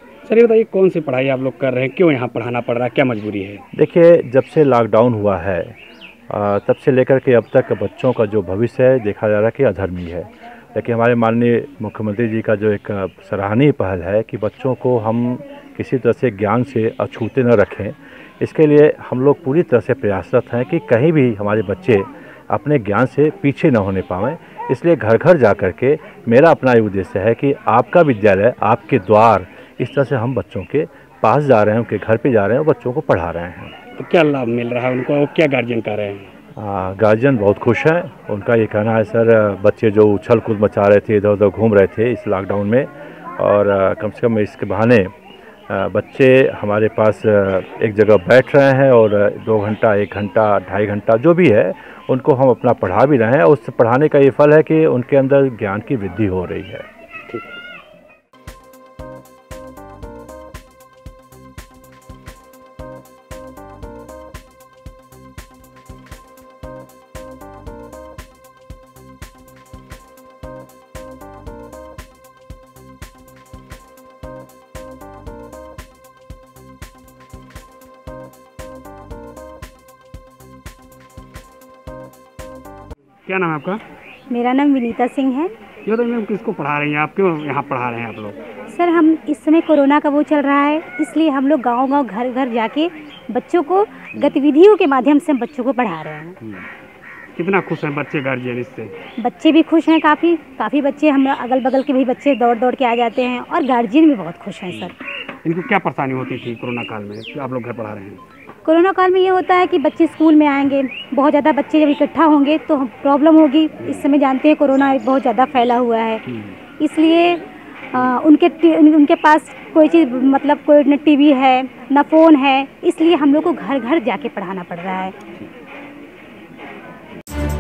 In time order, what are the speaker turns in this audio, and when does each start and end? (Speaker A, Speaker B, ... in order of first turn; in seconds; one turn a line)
Speaker A: 0.2-3.6
Speaker B: 3.8-5.8
Speaker B: 6.3-33.7
Speaker A: 34.0-36.3
Speaker B: 36.6-45.1
Speaker B: 45.7-56.9
Speaker A: 83.3-83.8
Speaker C: 84.3-85.5
Speaker A: 85.9-88.5
Speaker C: 88.7-96.4
Speaker A: 96.4-96.7
Speaker A: 97.4-99.0
Speaker C: 99.2-105.0
Speaker A: 105.4-108.2
Speaker C: 108.7-116.2
Speaker A: 113.8-114.1
Speaker A: 116.3-116.5
Speaker C: 116.8-117.4
Speaker C: 117.9-125.2